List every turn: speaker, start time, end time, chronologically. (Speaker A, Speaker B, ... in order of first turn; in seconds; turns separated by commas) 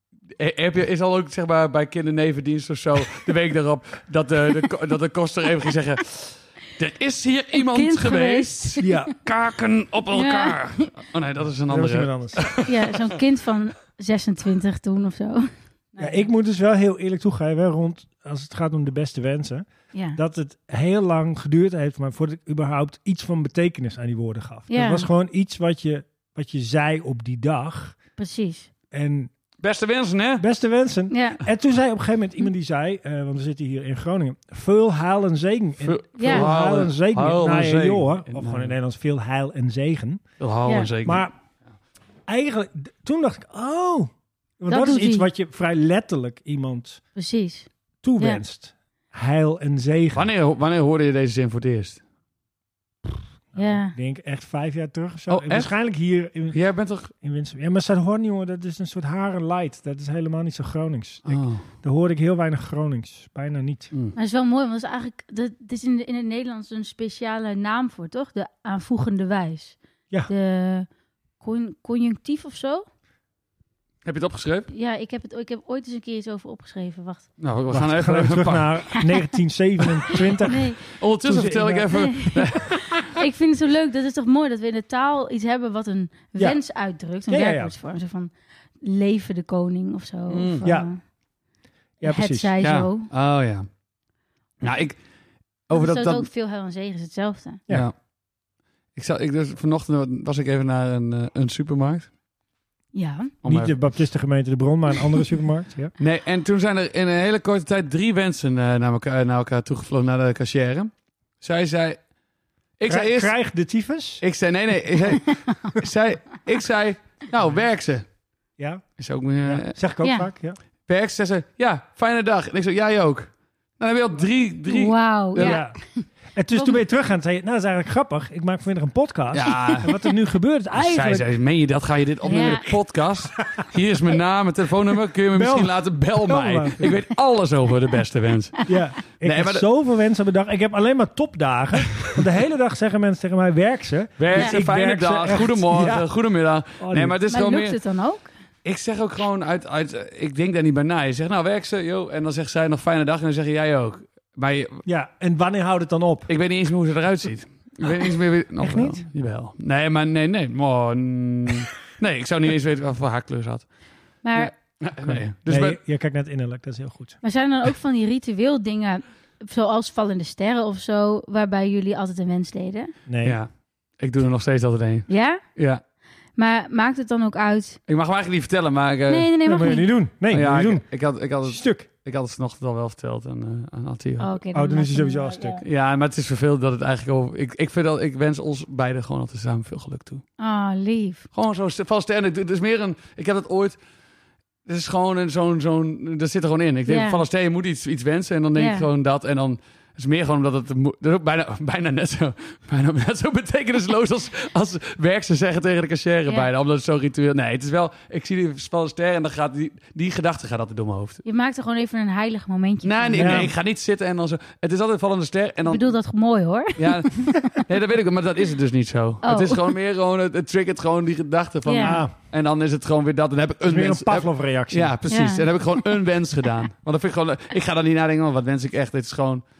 Speaker A: 0.3-12.9, Speaker B: 7.7-8.9, Speaker C: 8.8-9.1, Speaker B: 10.1-10.8, Speaker C: 11.7-12.5, Speaker B: 12.6-16.2, Speaker C: 16.0-28.0, Speaker B: 19.9-20.2, Speaker B: 24.7-25.1, Speaker B: 28.2-28.7, Speaker C: 28.9-29.3, Speaker A: 29.6-30.4, Speaker C: 30.4-40.3, Speaker B: 31.1-31.4, Speaker A: 35.8-38.7, Speaker B: 36.2-36.5, Speaker A: 40.4-41.3, Speaker C: 41.0-41.3, Speaker C: 42.3-47.0, Speaker B: 44.7-45.3, Speaker B: 47.1-48.4, Speaker C: 48.0-50.3, Speaker A: 50.1-52.0, Speaker C: 53.5-56.6, Speaker B: 53.5-53.9, Speaker A: 55.3-55.8, Speaker A: 56.5-57.1, Speaker C: 57.1-63.9, Speaker A: 61.2-61.6, Speaker B: 64.1-70.9, Speaker B: 71.4-72.8, Speaker A: 74.0-74.7, Speaker B: 74.7-77.3, Speaker A: 77.4-78.8, Speaker C: 77.7-82.2, Speaker B: 80.5-80.8, Speaker A: 81.0-82.9, Speaker B: 81.9-82.5, Speaker B: 83.1-91.0, Speaker C: 86.3-87.7, Speaker A: 90.3-90.6, Speaker C: 90.6-90.9, Speaker C: 92.0-92.5, Speaker B: 92.0-93.1, Speaker A: 92.6-93.7, Speaker A: 94.6-95.0, Speaker A: 95.7-96.3, Speaker B: 95.7-97.6, Speaker A: 97.7-98.0, Speaker A: 98.9-102.1, Speaker B: 102.9-103.3, Speaker A: 103.4-103.7, Speaker C: 103.4-105.9, Speaker A: 106.0-112.0, Speaker A: 112.8-113.3, Speaker C: 112.9-114.2, Speaker A: 114.2-118.0, Speaker C: 118.6-118.8, Speaker A: 119.0-119.7, Speaker C: 119.4-120.6, Speaker B: 120.0-120.3, Speaker A: 120.9-125.6, Speaker B: 124.7-126.8, Speaker C: 125.4-125.8, Speaker C: 126.3-131.3, Speaker A: 129.3-129.9, Speaker A: 130.7-139.7, Speaker B: 132.2-132.7, Speaker C: 132.3-132.6, Speaker C: 135.3-136.9, Speaker C: 138.7-146.1, Speaker A: 144.2-147.8, Speaker C: 146.8-147.2, Speaker B: 147.3-148.3, Speaker A: 148.6-154.8, Speaker C: 154.8-156.3, Speaker A: 156.3-165.8, Speaker C: 158.6-159.0, Speaker B: 164.2-164.5, Speaker C: 165.0-167.2, Speaker B: 167.2-172.9, Speaker C: 173.1-173.4, Speaker A: 173.2-175.8, Speaker B: 175.1-175.4, Speaker B: 176.3-177.8, Speaker A: 177.9-179.6, Speaker B: 179.1-179.9, Speaker C: 179.4-181.9, Speaker A: 180.3-184.3, Speaker B: 184.2-185.6, Speaker C: 184.5-185.6, Speaker A: 185.6-190.2, Speaker B: 190.4-191.2, Speaker A: 191.3-193.8, Speaker A: 194.7-211.2, Speaker B: 196.9-197.2, Speaker B: 198.5-198.8, Speaker B: 211.2-213.5, Speaker A: 212.8-215.9, Speaker C: 213.2-213.5, Speaker B: 215.7-217.6, Speaker A: 216.8-229.4, Speaker B: 219.2-219.7, Speaker B: 221.7-222.0, Speaker C: 221.8-222.1, Speaker C: 223.7-224.9, Speaker B: 225.1-225.4